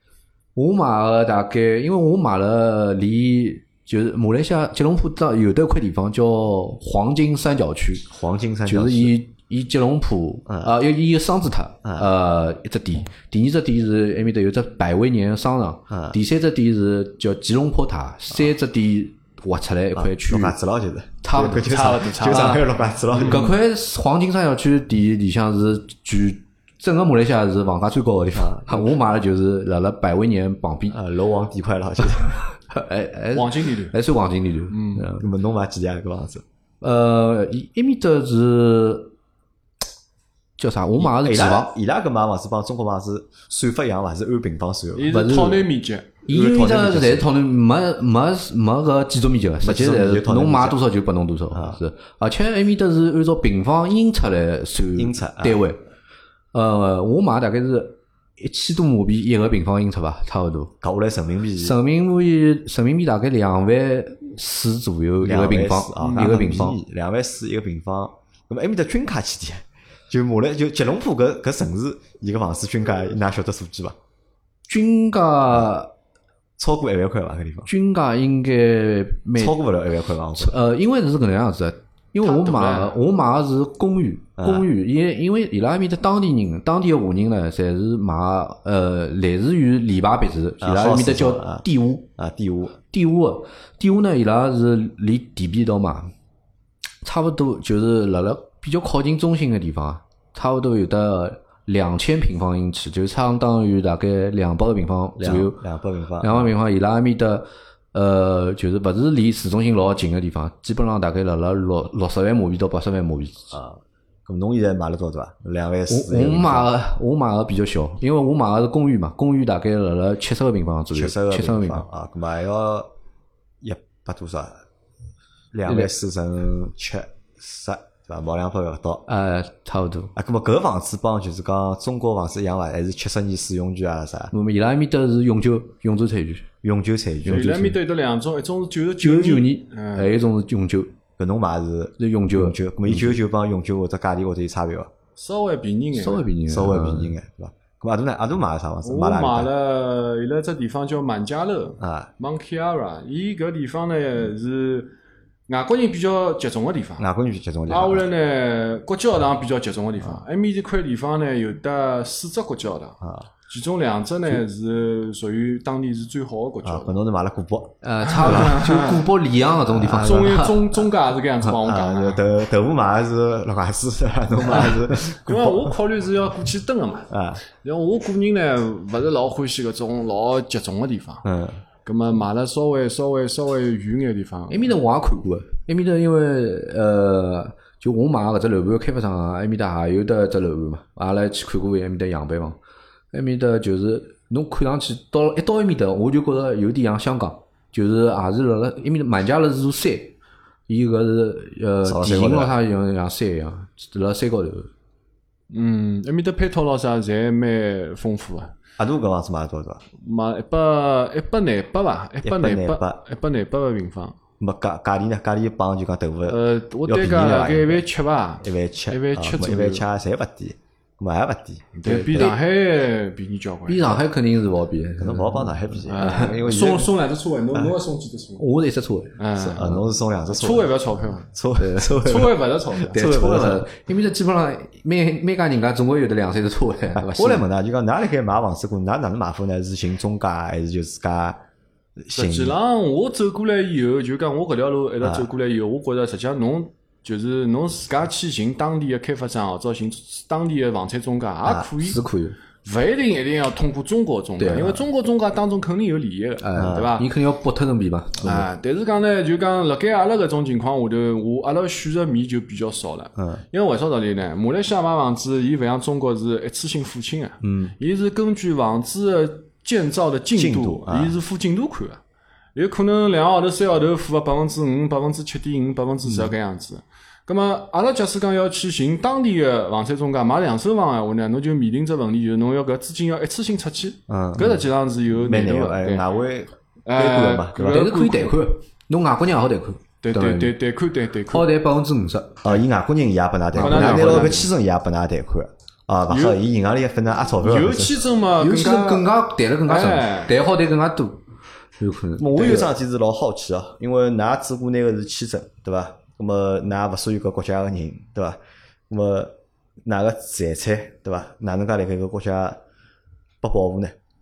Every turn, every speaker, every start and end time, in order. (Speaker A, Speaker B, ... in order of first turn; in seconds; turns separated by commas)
Speaker A: 0.6-8.1, Speaker B: 8.1-9.2, Speaker A: 8.7-20.6, Speaker B: 10.5-10.8, Speaker B: 11.8-12.1, Speaker B: 15.9-16.2, Speaker B: 19.9-23.5, Speaker A: 21.2-31.0, Speaker C: 21.3-22.6, Speaker C: 23.1-23.5, Speaker B: 28.3-28.8, Speaker B: 30.9-32.4, Speaker A: 32.7-35.3, Speaker C: 33.3-34.0, Speaker C: 34.7-35.0, Speaker B: 35.2-36.5, Speaker A: 36.8-39.1, Speaker A: 40.6-41.7, Speaker B: 41.0-45.1, Speaker C: 45.0-46.2, Speaker A: 45.1-45.7, Speaker B: 46.3-47.3, Speaker A: 46.3-55.8, Speaker B: 49.6-50.8, Speaker B: 51.5-51.8, Speaker B: 55.0-55.6, Speaker A: 56.5-60.7, Speaker B: 60.8-61.8, Speaker A: 61.6-66.8, Speaker B: 65.2-74.0, Speaker C: 66.0-66.4, Speaker A: 74.7-75.9, Speaker B: 76.6-77.7, Speaker A: 77.7-79.6, Speaker B: 79.4-80.6, Speaker A: 80.4-92.1, Speaker C: 82.2-83.0, Speaker B: 84.4-84.7, Speaker B: 90.6-91.6, Speaker B: 92.2-92.8, Speaker A: 92.9-96.1, Speaker A: 97.0-105.6, Speaker B: 105.2-106.5, Speaker A: 106.2-113.5, Speaker B: 113.5-116.7, Speaker A: 115.9-121.8, Speaker B: 120.9-122.9, Speaker B: 123.6-124.6, Speaker B: 125.5-129.1, Speaker A: 129.1-130.1, Speaker B: 130.1-134.3, Speaker A: 134.3-136.5, Speaker B: 136.6-137.5, Speaker A: 137.2-137.8, Speaker C: 137.3-140.1, Speaker A: 139.0-140.9, Speaker B: 141.2-144.9, Speaker A: 142.0-143.2, Speaker C: 145.2-146.2, Speaker A: 145.9-147.1, Speaker B: 146.5-149.5, Speaker C: 148.8-154.9, Speaker B: 151.8-152.1, Speaker C: 155.5-157.1, Speaker B: 157.0-158.1, Speaker C: 157.7-166.9, Speaker B: 163.0-163.3, Speaker B: 166.6-168.6, Speaker A: 167.8-170.7, Speaker C: 168.1-169.0, Speaker B: 169.7-170.4, Speaker C: 169.9-172.2, Speaker B: 171.6-175.7, Speaker C: 175.2-181.3, Speaker B: 177.1-177.4, Speaker B: 181.2-181.6, Speaker C: 181.8-184.7, Speaker A: 184.5-192.6, Speaker A: 193.1-200.2, Speaker A: 200.7-204.7, Speaker B: 201.8-202.6, Speaker C: 205.5-208.5, Speaker B: 208.8-209.8, Speaker C: 210.0-214.2, Speaker B: 212.2-213.0, Speaker B: 214.4-217.8, Speaker C: 216.3-219.8, Speaker B: 218.4-222.3, Speaker C: 221.7-224.0, Speaker A: 221.8-222.3, Speaker A: 223.7-226.4, Speaker B: 225.0-226.9, Speaker C: 225.9-228.4, Speaker A: 228.4-229.8, Speaker C: 229.2-229.8, Speaker B: 229.4-230.7, Speaker C: 230.3-231.3, Speaker B: 231.3-233.7, Speaker A: 231.6-232.1, Speaker C: 232.0-233.0, Speaker A: 232.9-237.4, Speaker B: 236.9-241.4, Speaker B: 242.0-242.6, Speaker C: 242.1-252.0, Speaker B: 245.0-245.3, Speaker A: 251.8-252.4, Speaker C: 252.6-257.1, Speaker A: 254.4-254.8, Speaker A: 256.4-258.4, Speaker B: 256.6-256.9, Speaker C: 258.2-272.0, Speaker B: 263.2-263.4, Speaker B: 267.4-267.7, Speaker B: 270.3-271.2, Speaker C: 272.6-286.1, Speaker B: 276.1-276.3, Speaker B: 284.1-284.6, Speaker B: 285.2-287.8, Speaker C: 286.9-288.4, Speaker A: 287.6-290.6, Speaker C: 290.0-291.4, Speaker A: 291.3-292.4, Speaker B: 292.4-297.9, Speaker A: 293.6-294.3, Speaker C: 293.6-294.5, Speaker C: 296.1-296.4, Speaker C: 297.4-299.1, Speaker A: 298.4-301.2, Speaker C: 299.7-300.3, Speaker A: 301.8-302.7, Speaker B: 302.2-312.6, Speaker B: 313.4-313.9